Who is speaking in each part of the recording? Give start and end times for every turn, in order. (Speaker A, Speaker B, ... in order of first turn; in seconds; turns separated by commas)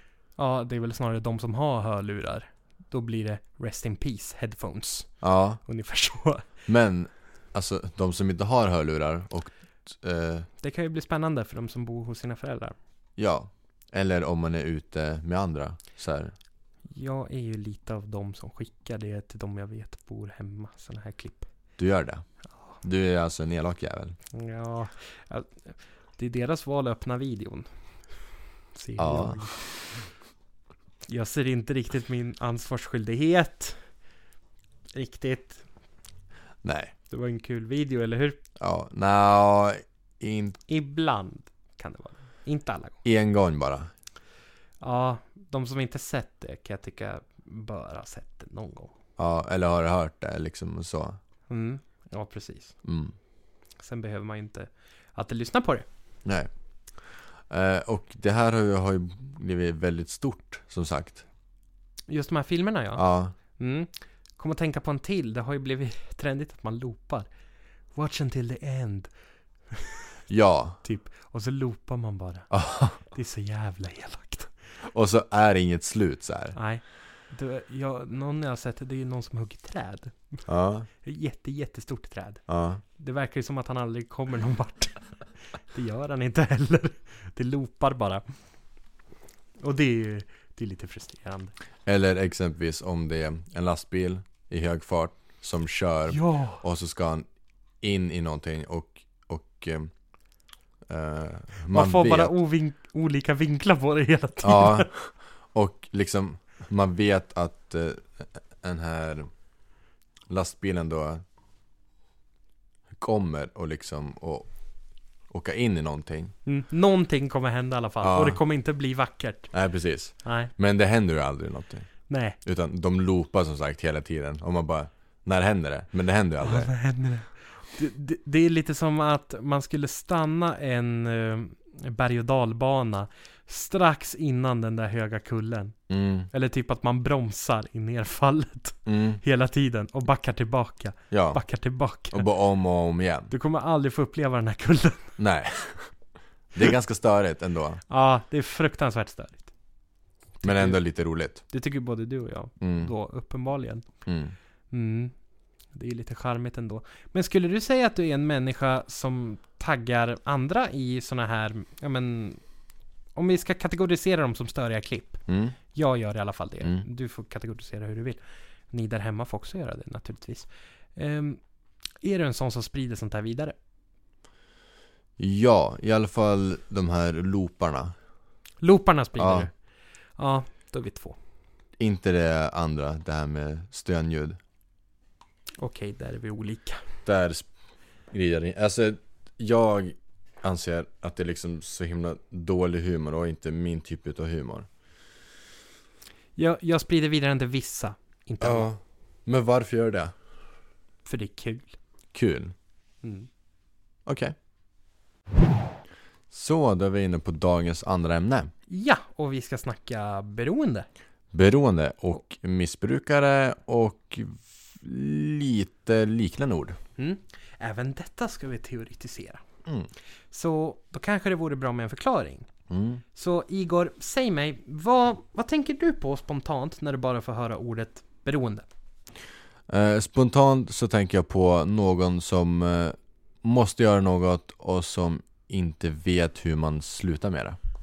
Speaker A: 0.4-5.1, Speaker B: 5.2-5.6, Speaker A: 5.7-6.5, Speaker B: 6.7-10.5, Speaker A: 10.6-12.8, Speaker B: 13.2-16.3, Speaker A: 16.9-21.5, Speaker B: 21.8-22.2, Speaker B: 22.8-24.2, Speaker A: 24.3-27.7, Speaker A: 28.7-29.7, Speaker B: 29.0-29.8, Speaker A: 31.1-33.9, Speaker A: 34.9-35.6, Speaker B: 36.6-36.9, Speaker A: 37.1-38.4, Speaker B: 38.6-40.6, Speaker A: 40.7-43.0, Speaker B: 43.0-43.9, Speaker A: 44.8-48.9, Speaker B: 49.2-51.2, Speaker A: 51.5-52.8, Speaker B: 52.9-53.1, Speaker A: 53.8-55.9, Speaker B: 57.5-61.2, Speaker A: 62.1-63.0, Speaker B: 63.0-63.4, Speaker A: 63.6-67.3, Speaker A: 68.0-69.1, Speaker A: 69.7-70.1, Speaker B: 70.3-70.8, Speaker A: 70.8-74.5, Speaker B: 72.5-73.0, Speaker B: 74.8-76.6, Speaker A: 76.5-80.5, Speaker B: 80.5-80.9, Speaker A: 81.0-82.4, Speaker B: 82.5-82.8, Speaker A: 83.0-88.2, Speaker A: 89.6-91.5, Speaker B: 91.9-97.3, Speaker A: 96.1-96.6, Speaker B: 97.8-99.9, Speaker B: 100.9-102.3, Speaker A: 101.7-104.9, Speaker B: 104.4-109.3, Speaker B: 110.3-111.2, Speaker B: 113.0-114.5, Speaker B: 115.3-116.3, Speaker A: 116.5-119.5, Speaker B: 118.0-118.4, Speaker B: 119.5-121.9, Speaker A: 120.2-120.5, Speaker A: 122.1-122.4, Speaker B: 122.4-126.7, Speaker A: 126.4-135.8, Speaker B: 135.9-136.3, Speaker A: 136.3-142.3, Speaker B: 138.9-139.2, Speaker B: 141.1-141.4, Speaker B: 142.1-143.3, Speaker A: 143.3-145.2, Speaker B: 145.2-145.9, Speaker B: 146.5-147.8, Speaker A: 147.9-149.5, Speaker A: 150.4-150.8, Speaker B: 150.4-151.4, Speaker A: 151.5-153.8, Speaker B: 152.6-152.9, Speaker B: 154.1-154.3, Speaker A: 154.7-155.1, Speaker A: 155.7-162.4, Speaker A: 163.2-168.2, Speaker B: 165.3-165.6, Speaker A: 168.7-171.4, Speaker A: 172.0-173.6, Speaker B: 175.2-177.9, Speaker A: 178.6-179.5, Speaker B: 179.2-179.5, Speaker A: 180.2-181.2, Speaker B: 181.8-184.4, Speaker A: 185.6-186.8, Speaker B: 187.1-187.5, Speaker B: 188.1-194.7, Speaker A: 196.4-198.7, Speaker B: 198.4-200.1, Speaker A: 201.1-201.8, Speaker B: 202.1-202.5, Speaker A: 203.0-203.3, Speaker B: 204.1-204.3, Speaker B: 206.3-208.5, Speaker A: 208.7-210.9, Speaker B: 211.3-216.8, Speaker A: 217.0-219.4, Speaker A: 220.3-222.5, Speaker B: 222.7-223.0, Speaker A: 223.2-228.7, Speaker B: 229.7-237.6